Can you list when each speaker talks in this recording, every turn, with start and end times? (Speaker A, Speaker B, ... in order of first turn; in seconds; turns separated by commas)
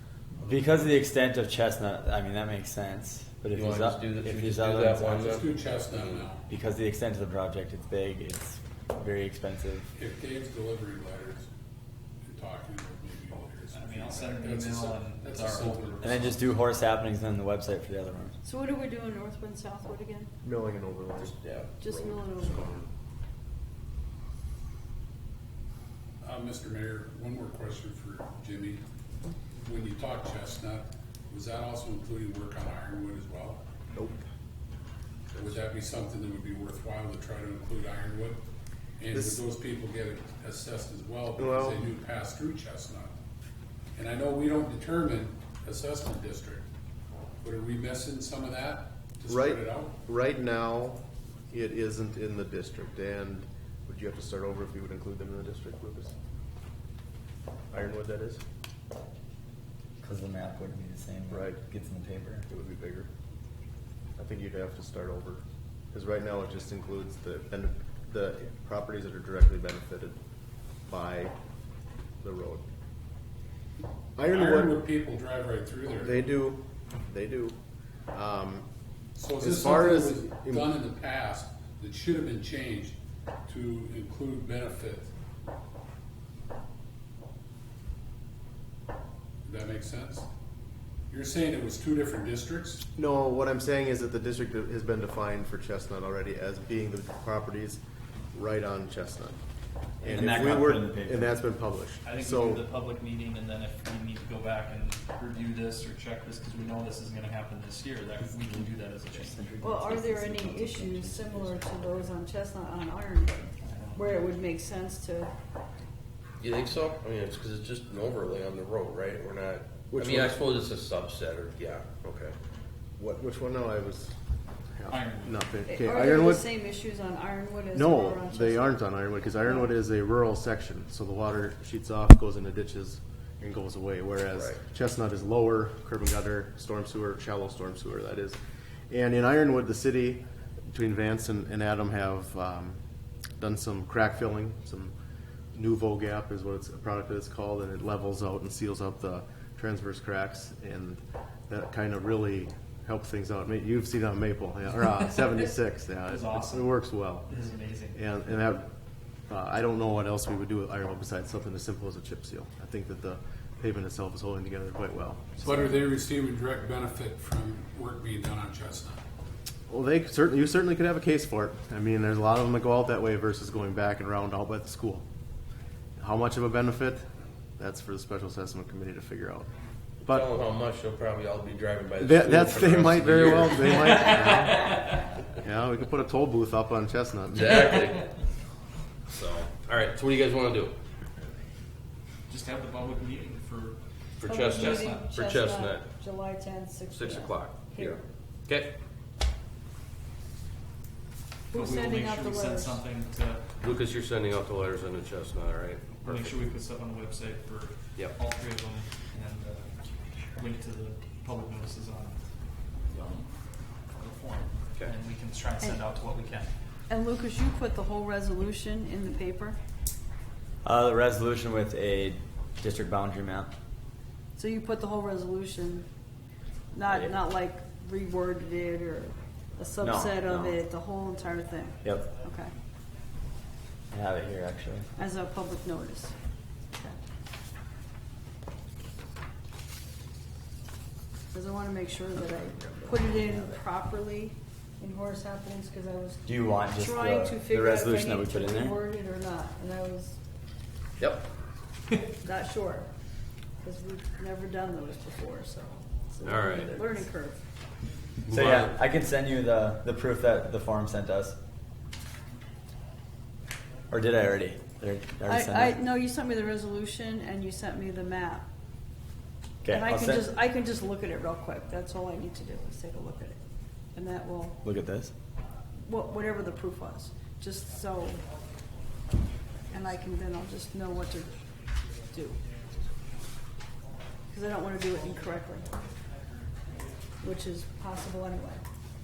Speaker A: 0.4-0.7, Speaker B: 0.4-5.2, Speaker A: 3.5-6.3, Speaker C: 5.2-6.4, Speaker B: 6.5-9.9, Speaker C: 9.9-11.4, Speaker C: 12.3-16.5, Speaker D: 13.7-16.2, Speaker B: 16.0-18.3, Speaker E: 18.4-20.3, Speaker F: 20.4-21.3, Speaker A: 21.1-22.9, Speaker E: 21.8-22.7, Speaker C: 26.2-28.8, Speaker C: 29.6-33.6, Speaker F: 33.9-34.2, Speaker C: 35.3-38.4, Speaker C: 39.0-43.1, Speaker F: 39.1-39.4, Speaker F: 41.4-41.8, Speaker C: 44.0-46.6, Speaker C: 47.4-49.9, Speaker F: 49.3-56.1, Speaker F: 57.7-58.4, Speaker B: 60.0-62.5, Speaker F: 61.3-61.6, Speaker F: 62.5-63.1, Speaker F: 64.2-70.2, Speaker F: 70.8-71.3, Speaker F: 72.2-72.6, Speaker F: 74.2-74.8, Speaker C: 74.2-76.4, Speaker F: 76.0-77.5, Speaker F: 78.1-78.7, Speaker C: 79.2-82.9, Speaker F: 79.4-80.7, Speaker C: 83.5-85.1, Speaker C: 89.5-90.2, Speaker C: 91.1-92.8, Speaker F: 93.0-97.8, Speaker F: 98.3-99.4, Speaker F: 100.0-102.6, Speaker B: 100.0-101.4, Speaker D: 102.0-109.4, Speaker B: 109.1-112.1, Speaker E: 109.6-115.3, Speaker D: 113.6-114.3, Speaker A: 116.4-122.3, Speaker F: 119.9-120.5, Speaker F: 123.0-124.1, Speaker F: 124.7-126.5, Speaker D: 124.9-125.5, Speaker E: 125.6-128.8, Speaker F: 127.7-138.4, Speaker E: 129.4-129.7, Speaker A: 134.3-134.6, Speaker F: 138.9-142.8, Speaker F: 143.4-144.9, Speaker F: 145.5-157.3, Speaker D: 156.1-158.0, Speaker F: 157.9-158.7, Speaker F: 159.3-165.8, Speaker C: 165.4-169.0, Speaker F: 169.7-175.0, Speaker F: 176.0-177.1, Speaker F: 177.6-179.5, Speaker A: 180.0-184.0, Speaker F: 180.0-180.3, Speaker F: 182.0-184.7, Speaker D: 183.8-185.0, Speaker F: 185.3-187.7, Speaker A: 187.3-188.1, Speaker A: 189.1-190.7, Speaker D: 192.3-193.8, Speaker A: 194.2-195.9, Speaker E: 194.2-198.0, Speaker D: 194.3-195.1, Speaker A: 196.9-198.7, Speaker E: 201.5-202.8, Speaker D: 201.5-203.6, Speaker A: 203.6-206.5, Speaker D: 206.0-212.2, Speaker D: 212.9-213.3, Speaker D: 213.9-216.5, Speaker E: 216.9-219.6, Speaker B: 220.6-223.5, Speaker E: 224.3-225.9, Speaker E: 226.7-232.5, Speaker B: 226.9-227.1, Speaker B: 229.8-230.6, Speaker B: 231.8-232.1, Speaker B: 233.9-234.9, Speaker E: 234.9-236.1, Speaker E: 236.7-237.0, Speaker E: 241.3-250.2, Speaker B: 242.6-243.6, Speaker B: 246.2-248.8, Speaker A: 251.0-251.3, Speaker E: 252.2-252.9, Speaker E: 253.6-257.4, Speaker A: 256.2-256.8, Speaker A: 258.3-258.7, Speaker B: 258.3-261.4, Speaker B: 263.9-265.8, Speaker E: 265.2-268.5, Speaker B: 269.6-270.3, Speaker E: 269.7-273.4, Speaker E: 273.9-274.6, Speaker B: 274.6-275.1, Speaker E: 275.8-278.2, Speaker E: 279.7-281.3, Speaker E: 282.1-282.4, Speaker E: 284.3-285.7, Speaker E: 287.2-288.6